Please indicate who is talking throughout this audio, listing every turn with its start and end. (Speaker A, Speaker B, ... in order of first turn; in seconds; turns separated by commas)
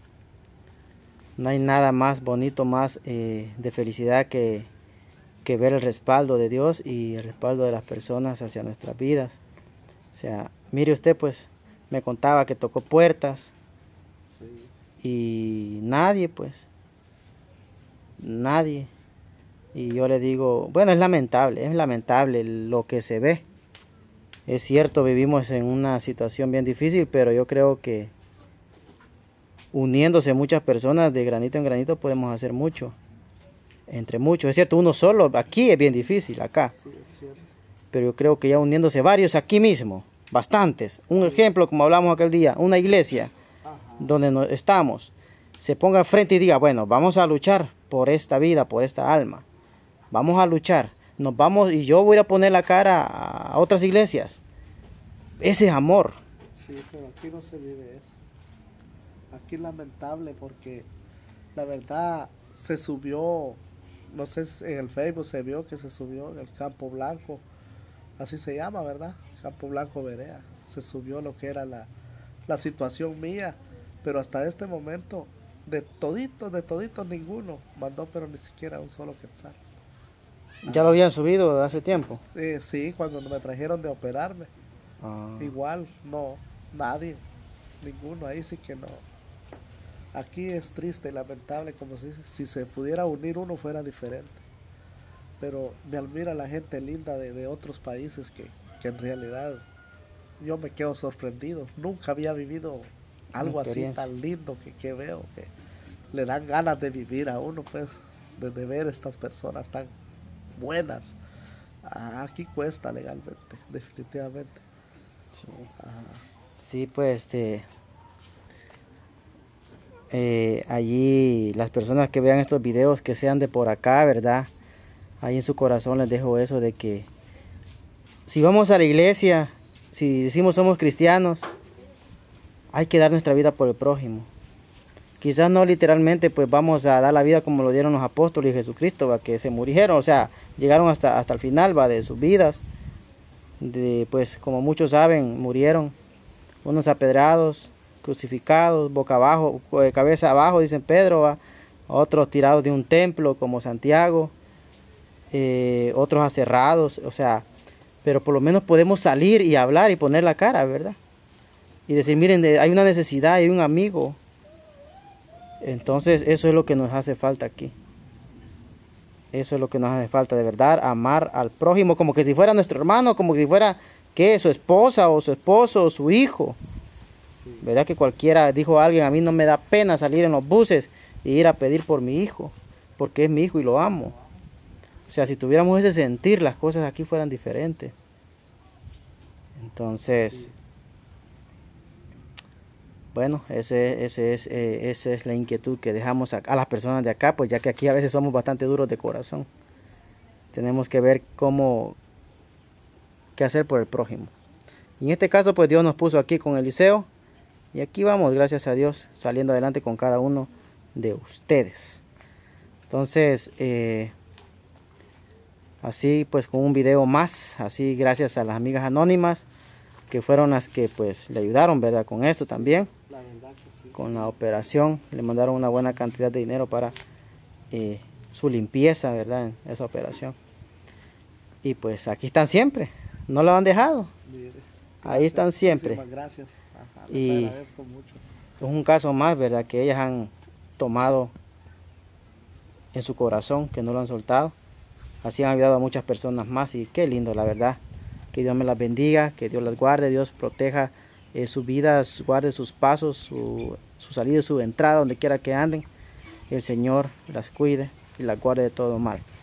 Speaker A: 1.4-4.7, Speaker A: 5.4-9.4, Speaker A: 10.1-13.5, Speaker B: 14.3-14.7, Speaker A: 15.0-16.6, Speaker A: 18.2-18.9, Speaker A: 19.7-23.4, Speaker A: 24.5-28.1, Speaker A: 29.7-33.0, Speaker A: 33.9-36.7, Speaker B: 36.7-37.5, Speaker A: 37.9-43.3, Speaker B: 41.1-41.5, Speaker B: 43.6-44.2, Speaker A: 44.0-49.4, Speaker A: 50.1-54.4, Speaker A: 55.4-56.2, Speaker B: 56.5-58.2, Speaker B: 59.3-60.9, Speaker B: 61.5-67.4, Speaker B: 68.2-71.9, Speaker B: 72.5-79.6, Speaker A: 80.6-82.2, Speaker B: 82.1-84.5, Speaker A: 85.0-85.5, Speaker B: 85.4-87.2, Speaker B: 87.8-89.0, Speaker B: 90.1-94.4, Speaker B: 95.4-99.6, Speaker B: 100.4-105.5, Speaker A: 103.4-104.1, Speaker B: 106.1-109.9, Speaker B: 110.5-111.2, Speaker B: 111.8-114.6, Speaker A: 115.3-115.7, Speaker B: 115.8-116.2, Speaker A: 116.6-117.7, Speaker A: 120.1-124.5, Speaker A: 125.2-127.1, Speaker A: 128.3-131.4, Speaker A: 132.7-134.3, Speaker A: 135.2-142.6, Speaker A: 143.6-145.9, Speaker A: 146.6-154.3, Speaker A: 155.3-157.4, Speaker A: 158.0-161.0, Speaker A: 161.9-164.2, Speaker A: 165.6-167.7, Speaker A: 169.3-176.6, Speaker B: 177.3-177.7, Speaker A: 177.6-184.1, Speaker A: 185.1-187.9, Speaker A: 189.6-190.5, Speaker B: 190.2-190.6, Speaker A: 193.1-199.5, Speaker A: 200.5-202.0, Speaker A: 203.3-204.3, Speaker A: 205.0-207.1, Speaker A: 207.7-212.0, Speaker A: 212.9-214.1, Speaker A: 215.8-219.4, Speaker A: 220.1-222.9, Speaker B: 222.4-224.3, Speaker A: 223.9-226.9, Speaker A: 227.7-230.3, Speaker A: 231.6-234.1, Speaker B: 234.2-238.2, Speaker A: 235.0-236.0, Speaker A: 237.1-237.6, Speaker A: 238.6-241.3, Speaker A: 242.9-244.5, Speaker A: 245.2-247.8, Speaker A: 248.3-255.8, Speaker A: 256.5-259.2